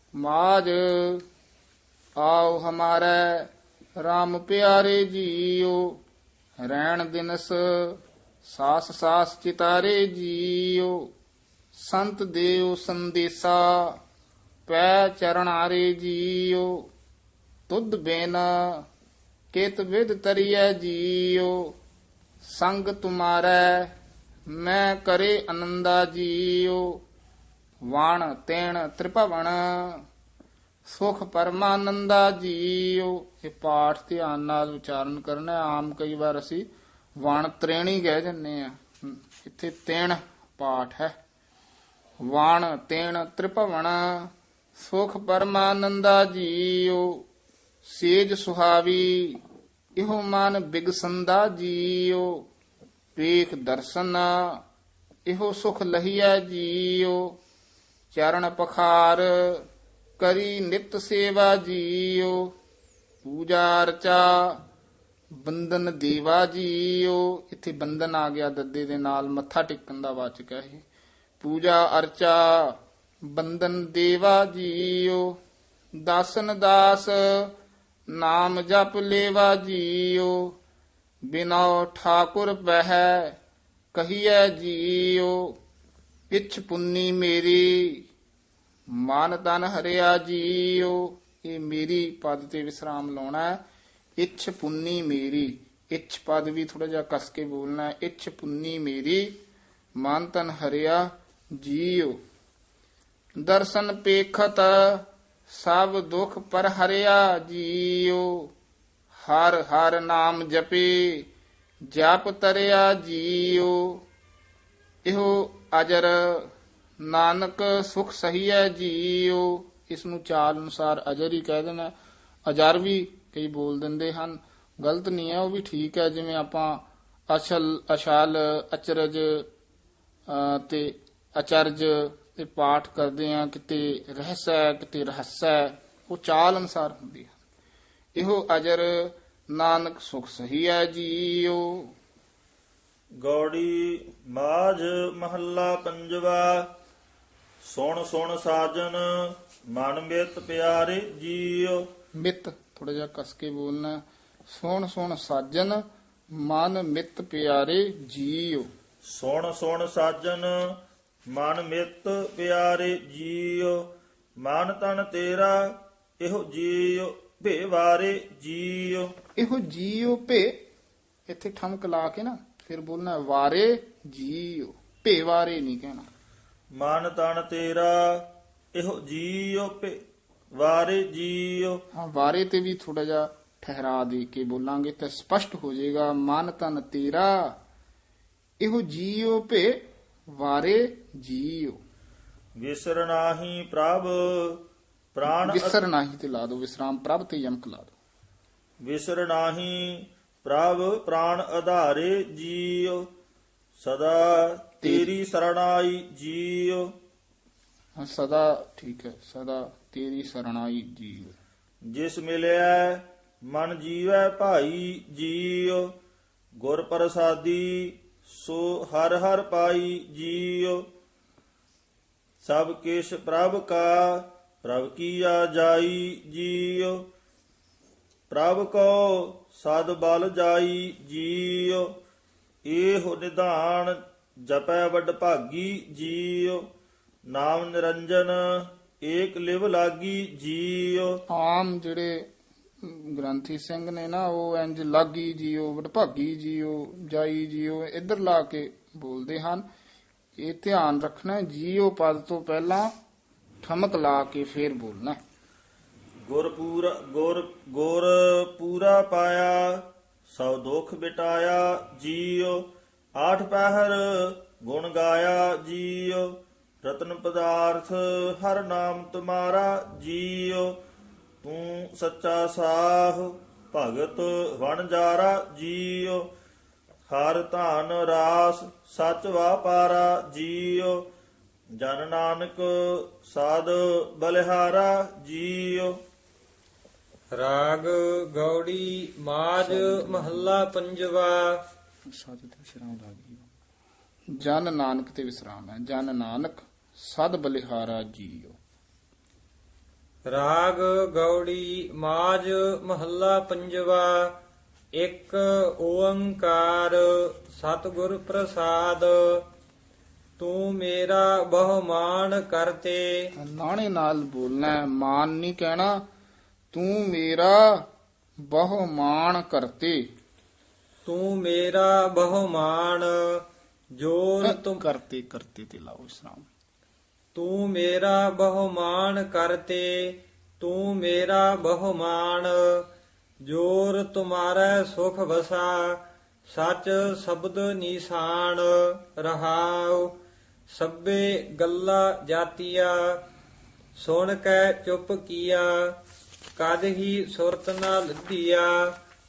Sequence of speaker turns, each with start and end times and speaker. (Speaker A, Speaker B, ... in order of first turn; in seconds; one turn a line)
Speaker A: 0.2-1.2
Speaker A: 2.2-6.0
Speaker A: 6.6-11.1
Speaker A: 11.7-14.0
Speaker A: 14.7-16.9
Speaker A: 17.7-18.9
Speaker A: 19.5-21.8
Speaker A: 22.4-23.9
Speaker A: 24.5-27.0
Speaker A: 27.9-30.1
Speaker A: 30.9-41.2
Speaker A: 42.2-47.3
Speaker A: 47.8-49.4
Speaker A: 50.0-52.5
Speaker A: 53.2-54.6
Speaker A: 55.3-57.4
Speaker A: 58.1-59.7
Speaker A: 60.2-62.5
Speaker A: 63.2-64.6
Speaker A: 65.3-70.8
Speaker A: 71.4-75.4
Speaker A: 76.0-77.5
Speaker A: 78.1-80.6
Speaker A: 81.3-83.4
Speaker A: 83.9-85.6
Speaker A: 86.3-88.1
Speaker A: 88.9-93.6
Speaker A: 94.2-99.4
Speaker A: 100.0-102.2
Speaker A: 103.4-108.5
Speaker A: 109.2-111.3
Speaker A: 111.8-114.1
Speaker A: 115.0-121.9
Speaker A: 122.5-129.5
Speaker A: 130.3-137.3
Speaker A: 138.2-141.9
Speaker B: 143.2-146.7
Speaker B: 147.6-149.1
Speaker B: 149.7-151.9
Speaker A: 152.2-158.7
Speaker B: 159.1-160.6
Speaker B: 161.3-163.8
Speaker B: 164.4-165.7
Speaker B: 166.2-169.1
Speaker A: 169.4-170.6
Speaker A: 171.3-176.1
Speaker B: 176.7-179.9
Speaker B: 180.5-181.8
Speaker A: 181.9-187.6
Speaker A: 188.6-191.8
Speaker B: 192.6-194.6
Speaker B: 195.1-195.8
Speaker A: 195.3-197.9
Speaker B: 198.8-203.1
Speaker B: 203.8-206.9
Speaker A: 204.8-205.1
Speaker A: 208.0-211.3
Speaker B: 211.9-215.9
Speaker B: 216.6-220.8
Speaker B: 222.4-227.0
Speaker B: 228.3-231.9
Speaker B: 232.7-236.7
Speaker B: 237.3-241.1
Speaker A: 241.3-242.3
Speaker A: 242.8-249.7
Speaker A: 250.4-252.9
Speaker A: 253.6-255.2
Speaker B: 256.2-262.6
Speaker B: 263.2-266.3
Speaker B: 266.8-270.7
Speaker B: 271.4-276.3
Speaker B: 277.1-281.0
Speaker B: 281.8-286.0
Speaker C: 287.4-291.4
Speaker A: 294.4-298.6
Speaker C: 300.3-304.3
Speaker C: 305.0-309.4
Speaker C: 310.4-313.3
Speaker A: 313.4-316.1
Speaker A: 316.7-317.9
Speaker A: 318.5-320.1
Speaker C: 321.1-323.4
Speaker C: 324.0-324.8
Speaker A: 324.4-326.5
Speaker C: 327.4-332.9
Speaker C: 333.4-340.1
Speaker C: 340.7-343.2
Speaker C: 344.0-345.9
Speaker C: 346.6-348.9